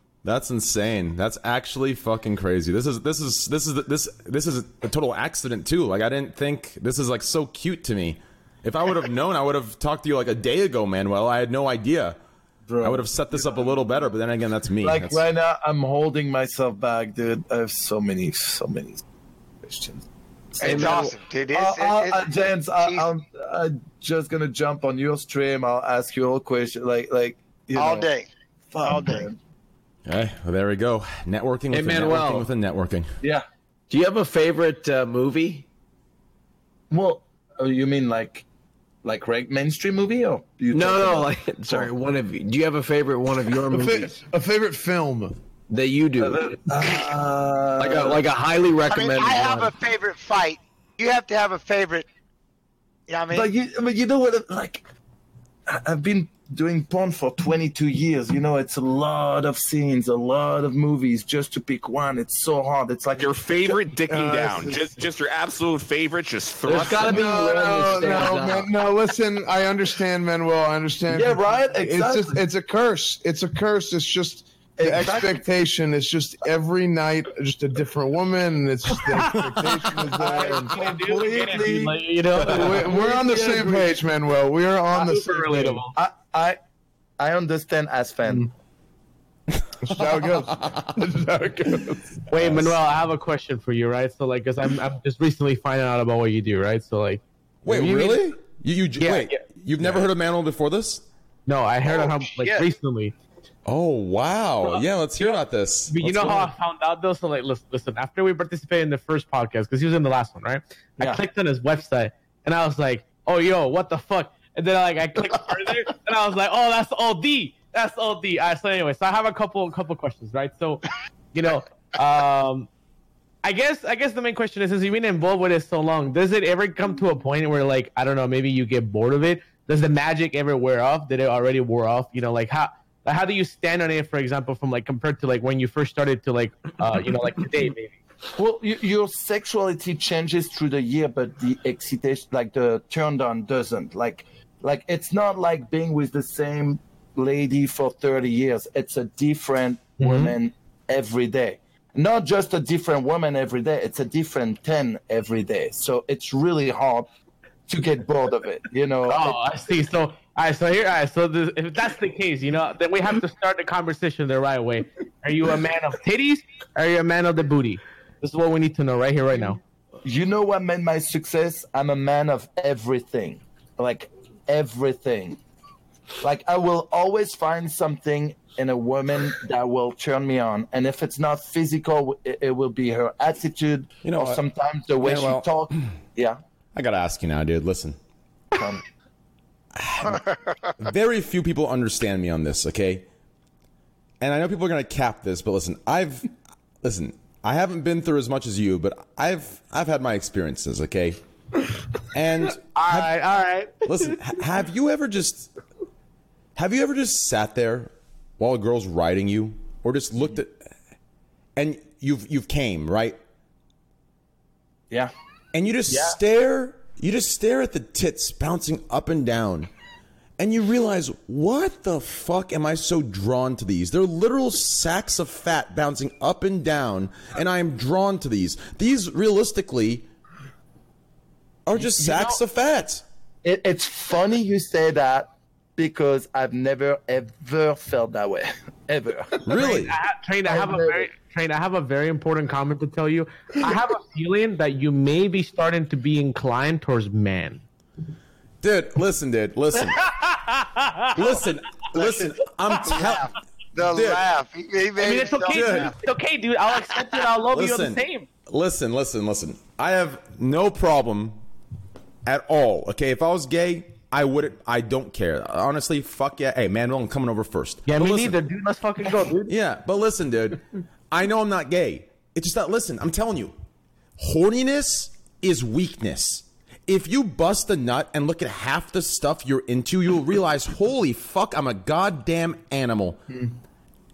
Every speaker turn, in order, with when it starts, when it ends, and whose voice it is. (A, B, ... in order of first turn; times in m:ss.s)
0:00.2-0:12.2 A
0:12.7-0:13.6 B
0:12.8-0:15.2 A
0:14.8-0:19.0 B
0:19.6-0:20.0 B
0:20.6-0:28.1 B
0:20.6-0:23.1 C
0:27.8-0:28.3 C
0:28.7-0:29.4 B
0:28.8-0:29.3 C
0:30.1-0:33.1 A
0:31.7-0:32.5 D
0:33.9-0:35.7 D
0:36.9-0:38.4 B
0:39.0-0:41.9 B
0:40.7-0:44.2 D
0:43.7-0:45.4 E
0:45.7-0:46.6 D
0:46.2-0:48.2 B
0:47.8-0:49.7 D
0:48.9-0:52.1 C
0:53.1-0:53.5 C
0:53.3-0:54.8 B
0:55.7-1:03.7 B
1:03.2-1:07.1 F
1:04.1-1:04.9 E
1:06.7-1:08.7 D
1:07.0-1:08.4 B
1:07.1-1:20.8 E
1:11.1-1:12.4 B
1:14.8-1:15.4 B
1:19.1-1:24.0 B
1:20.2-1:22.9 G
1:22.3-1:25.8 E
1:24.9-1:26.6 B
1:25.4-1:25.8 G
1:27.2-1:28.5 B
1:28.2-1:28.5 E
1:29.5-1:30.9 A
1:29.8-1:32.2 E
1:32.3-1:38.2 G
1:32.4-1:32.8 A
1:37.6-1:41.0 A
1:39.0-1:39.5 G
1:41.5-1:43.1 G
1:41.9-1:42.7 B
1:43.7-1:46.5 A
1:44.6-2:02.7 G
1:51.0-1:51.2 B
2:03.4-2:18.0 G
2:18.3-2:37.1 B
2:30.0-2:30.4 G
2:37.7-2:39.4 B
2:39.1-2:49.6 G
2:50.0-2:55.4 B
2:56.2-3:06.4 B
3:04.0-3:04.4 A
3:06.8-3:08.0 A
3:08.5-3:08.8 B
3:09.8-3:10.2 A
3:10.0-3:10.7 C
3:10.8-3:13.0 A
3:14.2-3:16.3 A
3:16.8-3:21.2 A
3:22.1-3:23.2 A
3:22.6-3:24.2 G
3:23.8-3:25.5 A
3:26.6-3:30.6 A
3:31.6-3:33.2 A
3:35.5-3:39.7 A
3:40.4-3:50.1 A
3:51.7-3:53.0 A
3:51.8-3:52.3 B
3:52.0-3:52.4 G
3:53.4-3:59.6 B
3:59.4-4:00.0 A
3:59.6-4:07.6 G
4:00.5-4:01.1 B
4:08.6-4:10.1 A
4:09.8-4:11.4 G
4:11.1-4:13.3 A
4:12.8-4:15.9 C
4:13.8-4:14.2 A
4:15.0-4:18.3 G
4:15.5-4:16.0 A
4:17.5-4:21.4 A
4:22.3-4:28.4 A
4:27.9-4:29.5 G
4:29.5-4:33.5 A
4:34.2-4:43.2 A
4:43.3-4:43.6 E